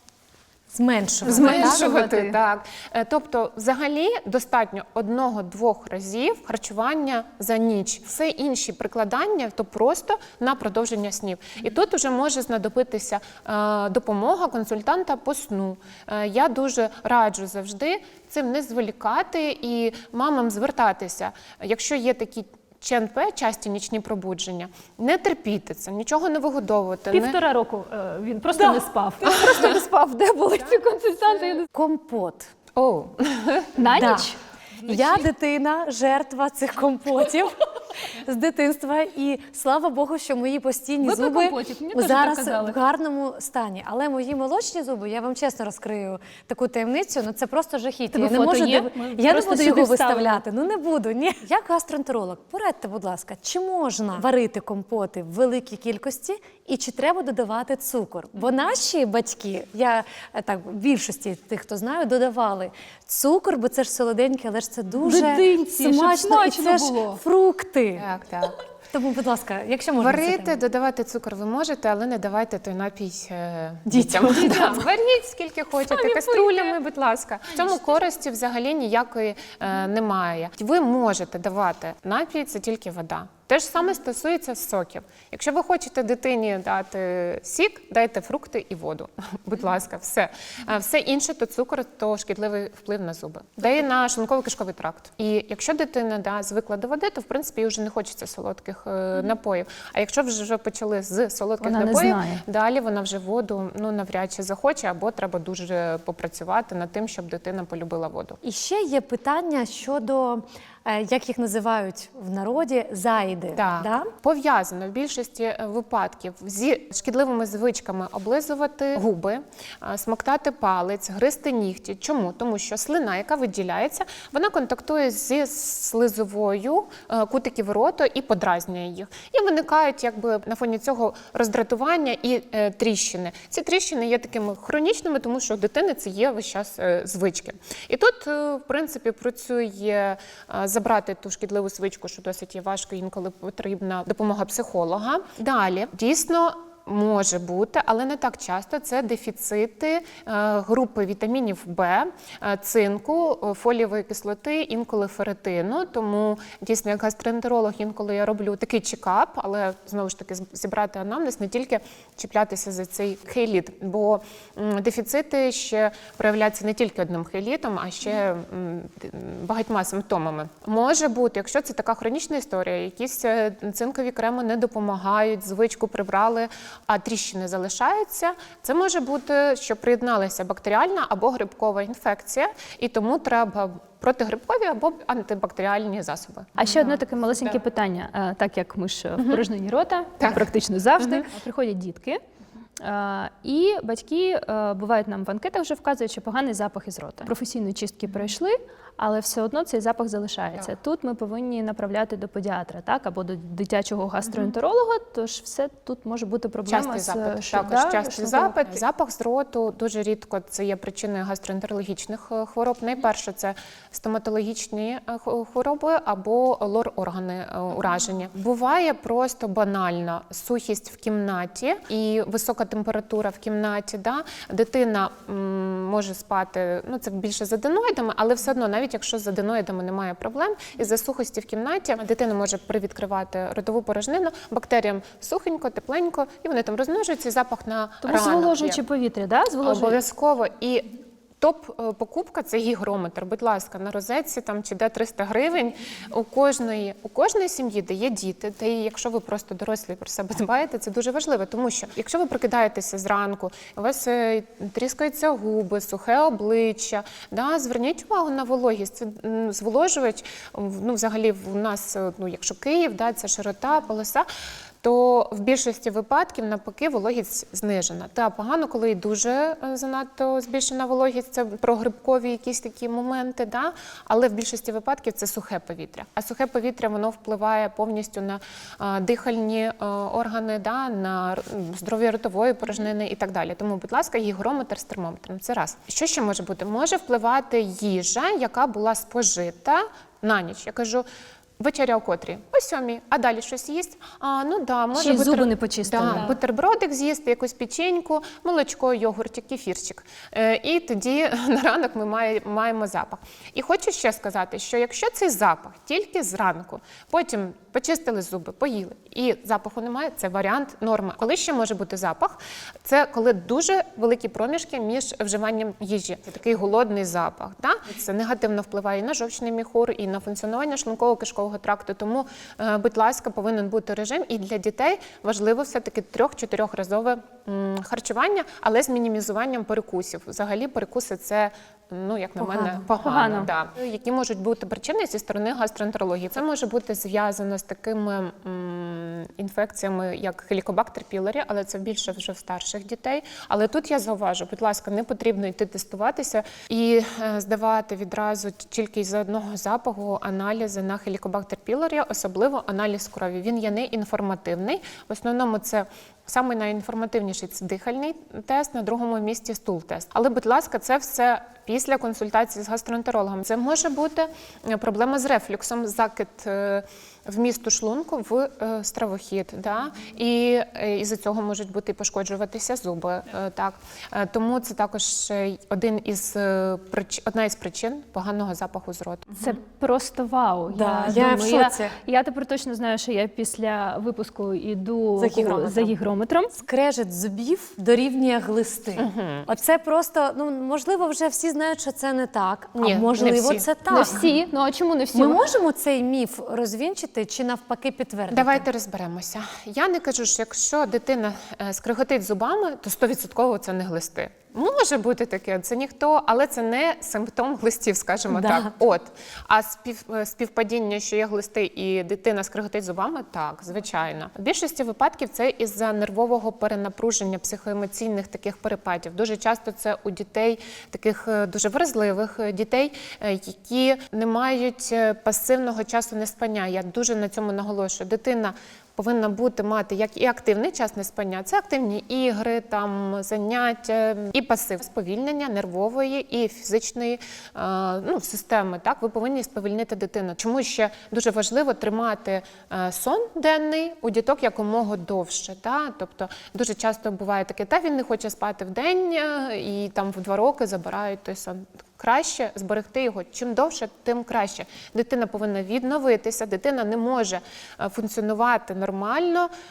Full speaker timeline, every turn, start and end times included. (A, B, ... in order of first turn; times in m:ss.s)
0:00.7-0:01.8 A
0:01.2-0:27.4 B
0:01.3-0:02.4 C
0:27.1-0:31.7 C
0:29.2-0:29.8 B
0:31.7-0:32.5 A
0:32.8-0:33.8 B
0:33.8-0:35.2 C
0:33.9-0:34.3 A
0:34.9-1:08.0 A
0:41.0-0:42.8 C
0:48.1-0:50.4 C
1:05.0-1:07.2 C
1:08.0-1:08.6 B
1:08.9-1:10.6 A
1:10.0-1:48.4 B
1:13.9-1:14.8 A
1:15.9-1:16.7 C
1:41.6-1:42.4 C
1:48.4-1:54.1 A
1:53.5-3:07.6 B
3:06.6-3:12.2 C
3:09.2-3:09.4 B
3:10.2-3:11.3 B
3:12.8-3:28.8 C
3:24.2-3:24.5 B
3:26.7-3:58.8 B
3:58.0-4:00.0 C
3:59.6-4:24.3 B
4:24.8-4:51.0 B
4:51.6-6:19.6 B
4:54.9-4:56.4 C
5:33.0-5:33.5 C
6:19.4-6:26.5 C
6:20.7-6:22.0 A
6:25.2-6:25.9 A
6:26.5-6:34.3 A
6:29.0-6:29.5 B
6:32.8-6:33.7 B
6:33.9-6:35.4 C
6:35.1-6:38.7 A
6:38.3-7:39.5 B
6:48.3-6:48.7 A